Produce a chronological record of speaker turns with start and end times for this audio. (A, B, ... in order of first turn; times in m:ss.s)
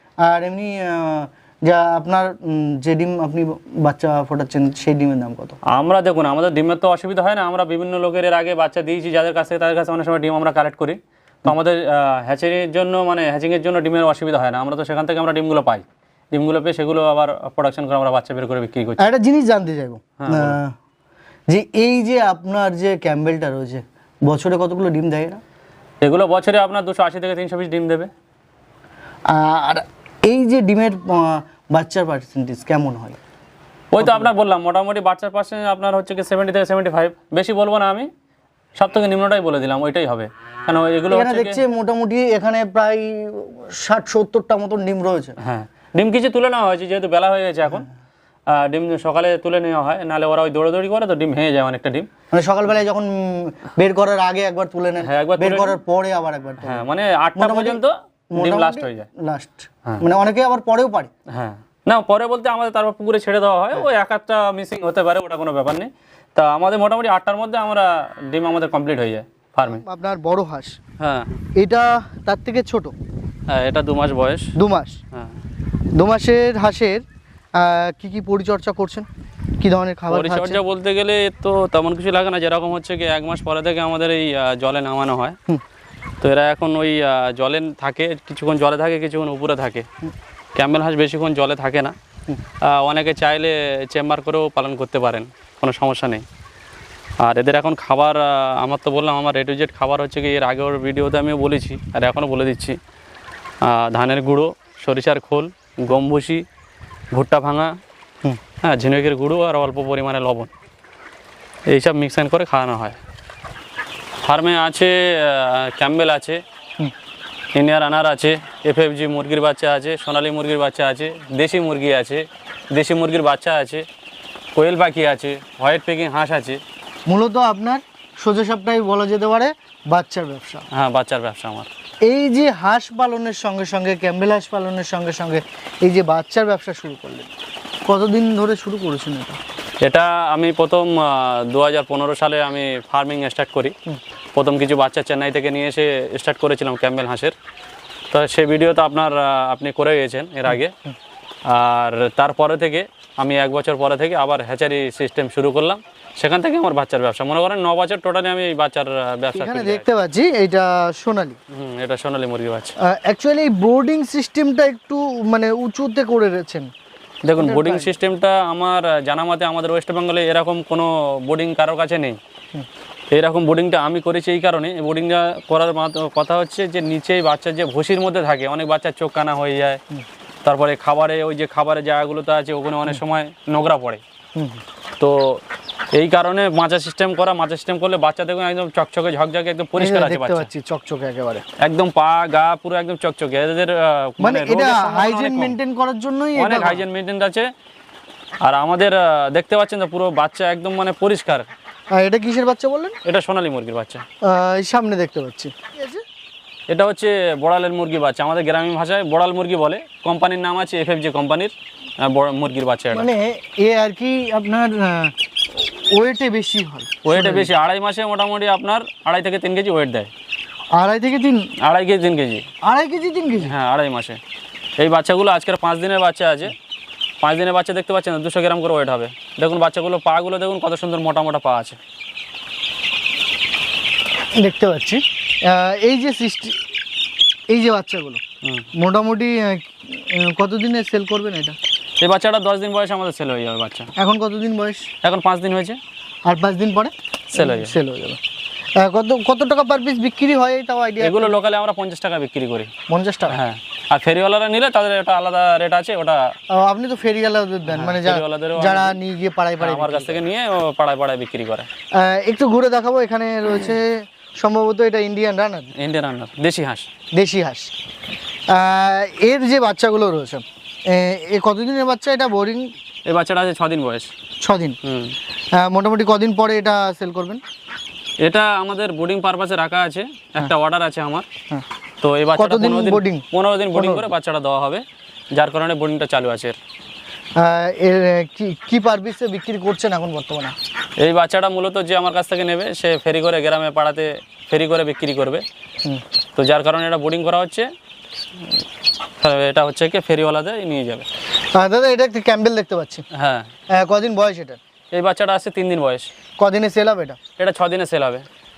0:00.2-0:05.6 A
0:05.6-0:19.0 B
0:19.0-0:20.7 A
0:20.2-0:20.6 B
0:21.5-0:25.4 A
0:26.0-0:28.1 B
0:29.3-0:33.2 A
0:33.9-0:38.1 B
0:34.0-0:34.3 A
0:38.8-0:41.6 B
0:41.1-0:45.3 A
0:45.4-0:47.9 B
0:48.5-0:52.1 B
0:52.3-1:01.1 A
0:55.0-0:55.8 B
0:56.6-0:59.1 B
1:01.3-1:09.8 B
1:09.6-1:10.8 A
1:11.0-1:11.4 B
1:11.6-1:13.0 A
1:13.5-1:14.5 B
1:14.6-1:15.0 A
1:15.9-1:17.0 A
1:17.6-1:19.1 A
1:19.6-1:20.6 A
1:20.1-1:25.4 B
1:26.2-1:29.8 B
1:30.6-1:31.9 B
1:32.6-1:36.2 B
1:37.2-1:42.8 B
1:43.6-1:46.4 B
1:47.1-1:47.7 B
1:48.6-1:50.5 B
1:51.7-1:53.0 B
1:54.2-1:56.4 B
1:57.5-2:03.8 B
2:04.5-2:06.6 B
2:07.1-2:10.7 A
2:10.7-2:11.7 B
2:12.0-2:17.3 A
2:17.8-2:19.4 A
2:19.8-2:23.7 B
2:24.3-2:27.3 B
2:28.1-2:30.7 B
2:31.5-2:39.8 B
2:39.3-2:41.4 A
2:41.5-2:42.7 B
2:42.8-2:46.7 A
2:47.2-2:52.2 B
2:47.4-2:47.9 A
2:53.1-2:59.8 B
3:00.4-3:04.0 B
3:04.3-3:04.6 A
3:05.0-3:05.4 B
3:05.9-3:10.5 B
3:09.8-3:11.4 A
3:11.6-3:15.5 B
3:14.2-3:16.8 A
3:16.3-3:17.5 B
3:18.4-3:21.5 B
3:21.9-3:23.0 A
3:23.0-3:24.0 B
3:24.2-3:26.0 A
3:26.7-3:33.1 B
3:32.9-3:37.5 A
3:37.0-3:40.1 B
3:40.8-3:41.5 A
3:41.6-3:42.4 B
3:42.6-3:43.5 A
3:43.4-3:44.2 B
3:44.8-3:46.5 B
3:47.2-3:51.8 B
3:54.4-3:56.6 A
3:57.5-3:58.2 A
3:58.7-4:01.6 A
4:02.0-4:03.9 B
4:04.0-4:04.9 A
4:05.0-4:05.8 B
4:06.2-4:08.2 A
4:07.3-4:07.7 B
4:08.8-4:11.4 A
4:11.0-4:12.7 B
4:12.9-4:13.4 A
4:13.3-4:16.3 B
4:16.5-4:20.2 A
4:17.7-4:19.0 B
4:19.6-4:21.7 B
4:21.9-4:25.7 A
4:25.8-4:26.9 B
4:27.1-4:27.7 A
4:28.5-4:32.7 A
4:33.0-4:34.1 B
4:34.4-4:34.8 A
4:34.8-4:35.2 B
4:35.5-4:37.4 A
4:38.2-4:41.3 B
4:42.0-4:44.8 B
4:42.4-4:44.1 A
4:45.3-4:46.6 B
4:47.4-4:50.6 A
4:51.0-4:55.4 B
4:56.4-4:57.7 B
4:59.2-5:01.1 B
5:01.5-5:03.0 A
5:03.1-5:03.5 B
5:03.7-5:04.6 A
5:04.9-5:06.1 B
5:06.4-5:07.2 A
5:07.4-5:08.2 B